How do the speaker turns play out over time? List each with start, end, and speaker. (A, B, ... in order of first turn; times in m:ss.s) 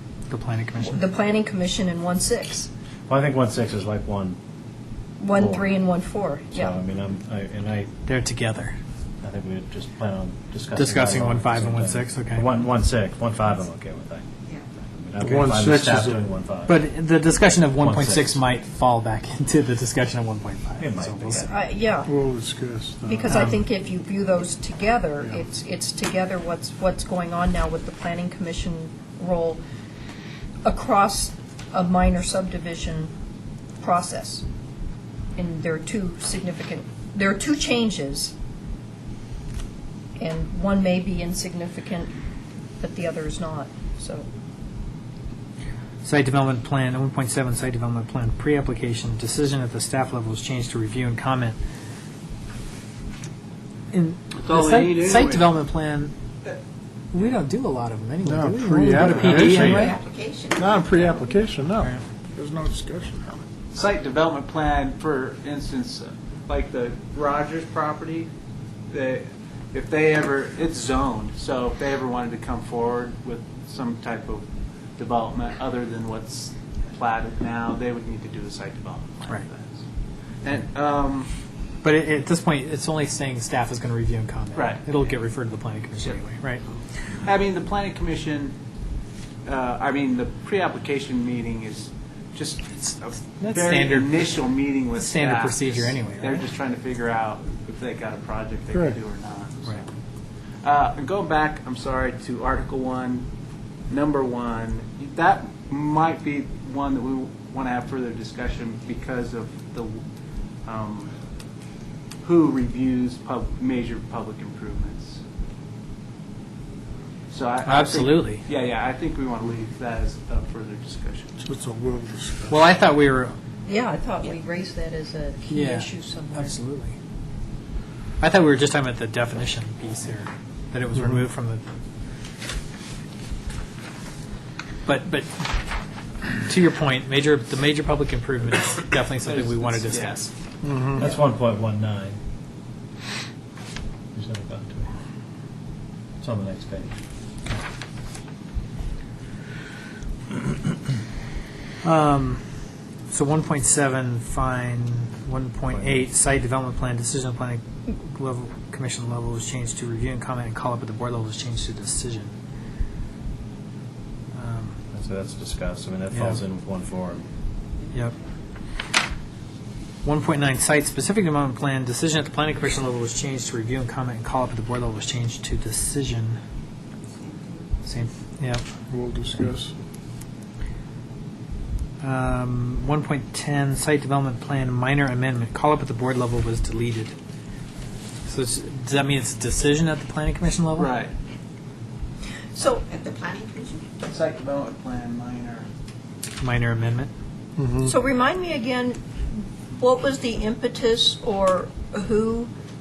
0:00.3-0:01.0 A
0:00.8-0:02.7 B
0:03.1-0:04.4 C
0:05.2-0:06.7 B
0:05.3-0:05.8 C
0:06.5-0:07.9 C
0:08.0-0:08.8 A
0:09.2-0:16.8 C
0:10.8-0:12.5 A
0:15.2-0:16.2 D
0:16.7-0:21.5 A
0:17.8-0:18.4 C
0:20.8-0:21.5 C
0:21.4-0:22.1 B
0:22.0-0:23.4 D
0:23.0-0:29.6 B
0:23.3-0:23.6 A
0:30.6-0:33.1 B
0:33.8-0:34.4 B
0:35.4-0:38.3 B
0:40.2-0:42.1 B
0:42.8-0:44.2 B
0:46.0-0:51.6 A
0:53.9-0:56.1 A
0:54.4-0:55.5 E
0:57.1-1:00.0 A
0:58.2-1:03.4 D
1:03.7-1:08.3 E
1:08.9-1:14.4 E
1:15.0-1:19.8 E
1:20.4-1:21.3 E
1:21.8-1:26.6 A
1:24.5-1:24.8 E
1:27.0-1:28.5 E
1:29.4-1:39.9 E
1:32.9-1:34.2 A
1:34.9-1:36.4 A
1:38.7-1:39.0 D
1:40.6-1:43.3 E
1:43.9-1:50.0 E
1:50.6-1:51.1 E
1:52.2-1:55.2 E
1:57.3-2:01.3 E
1:57.6-1:58.4 A
2:01.4-2:02.6 D
2:02.5-2:03.3 A
2:03.6-2:06.6 B
2:05.5-2:06.9 A
2:08.2-2:11.6 A
2:14.8-2:15.7 A
2:16.4-2:20.3 A
2:19.2-2:20.2 E
2:20.6-2:21.0 D
2:20.9-2:22.2 C
2:24.1-2:24.9 C
2:26.2-2:27.0 C
2:31.8-2:32.4 A
2:33.1-2:42.3 A
2:35.7-2:36.1 C
2:44.3-2:44.8 A
2:44.9-2:47.2 C
2:46.1-2:46.4 A
2:50.0-2:56.4 A
2:57.8-2:58.6 A
2:58.9-2:59.8 D
3:02.0-3:07.1 A
3:08.2-3:10.9 A
3:10.8-3:11.1 E
3:12.5-3:13.2 B
3:14.0-3:15.6 E
3:16.4-3:17.1 A
3:17.6-3:17.9 D
3:17.8-3:19.0 B
3:19.7-3:22.5 B